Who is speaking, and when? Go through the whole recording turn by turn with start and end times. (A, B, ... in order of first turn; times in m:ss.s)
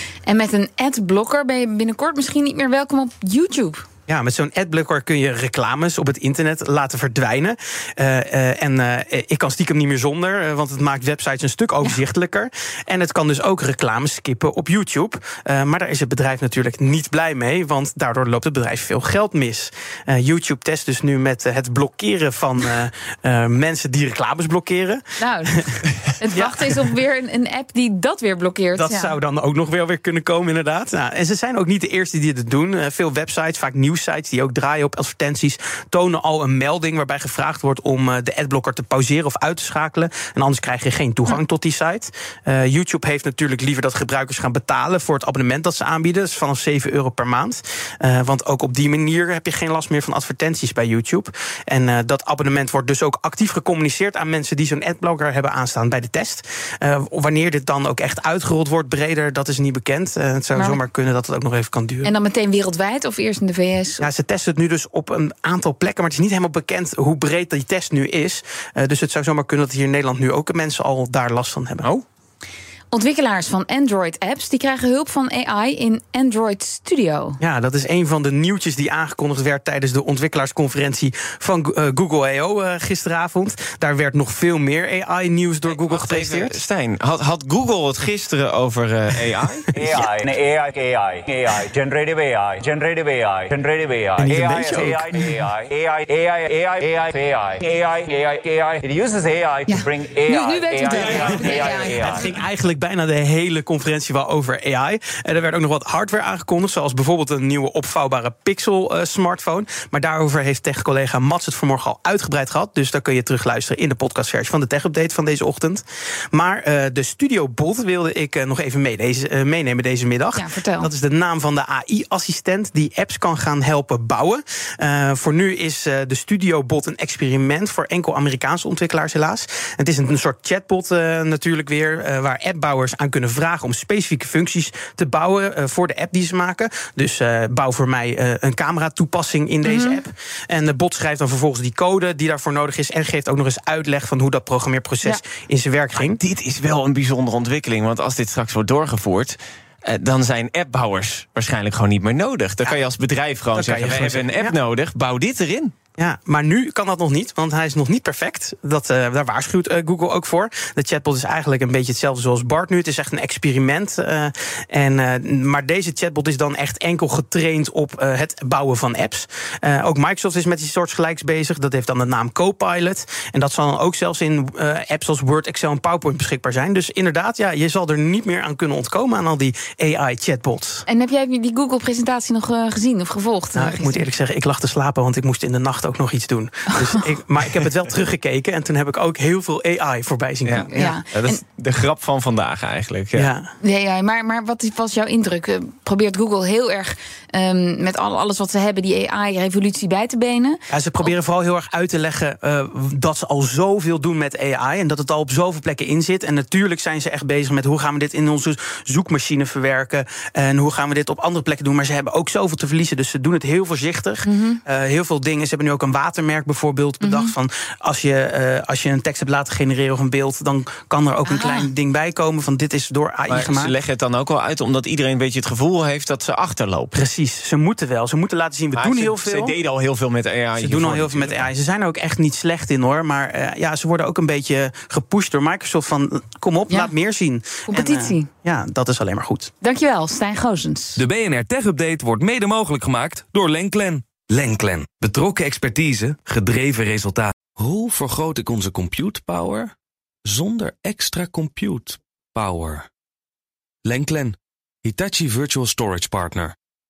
0:00.3-0:03.8 A
0:04.1-0:25.8 B
0:25.2-0:29.2 A
0:26.3-0:26.8 B
0:28.8-1:02.1 B
1:00.5-1:00.8 A
1:02.0-1:04.1 A
1:04.0-1:11.9 B
1:12.9-1:17.4 A
1:17.4-1:26.6 B
1:25.7-1:29.7 C
1:29.7-1:42.3 D
1:34.2-1:35.2 B
1:39.7-1:42.3 A
1:40.9-2:26.2 B
2:00.4-2:00.9 A
2:19.6-2:20.0 A
2:26.0-2:35.7 C
2:33.6-2:34.6 B
2:36.0-3:00.8 B
3:00.9-3:04.1 A
3:03.6-3:11.0 B
3:06.7-3:07.0 A
3:10.4-3:13.3 C
3:10.6-3:11.4 A
3:13.2-3:13.5 B
3:13.6-3:21.1 A
3:20.7-3:43.7 B
3:34.2-3:34.6 A
3:37.0-3:37.4 A
3:41.3-3:41.7 A
3:43.3-3:47.0 C
3:46.9-3:49.6 B
3:48.8-3:51.5 C
3:50.6-3:59.5 B
3:57.7-3:58.3 A
3:59.6-4:01.0 A
4:01.0-4:09.7 E
4:10.2-4:12.9 E
4:13.8-4:16.5 E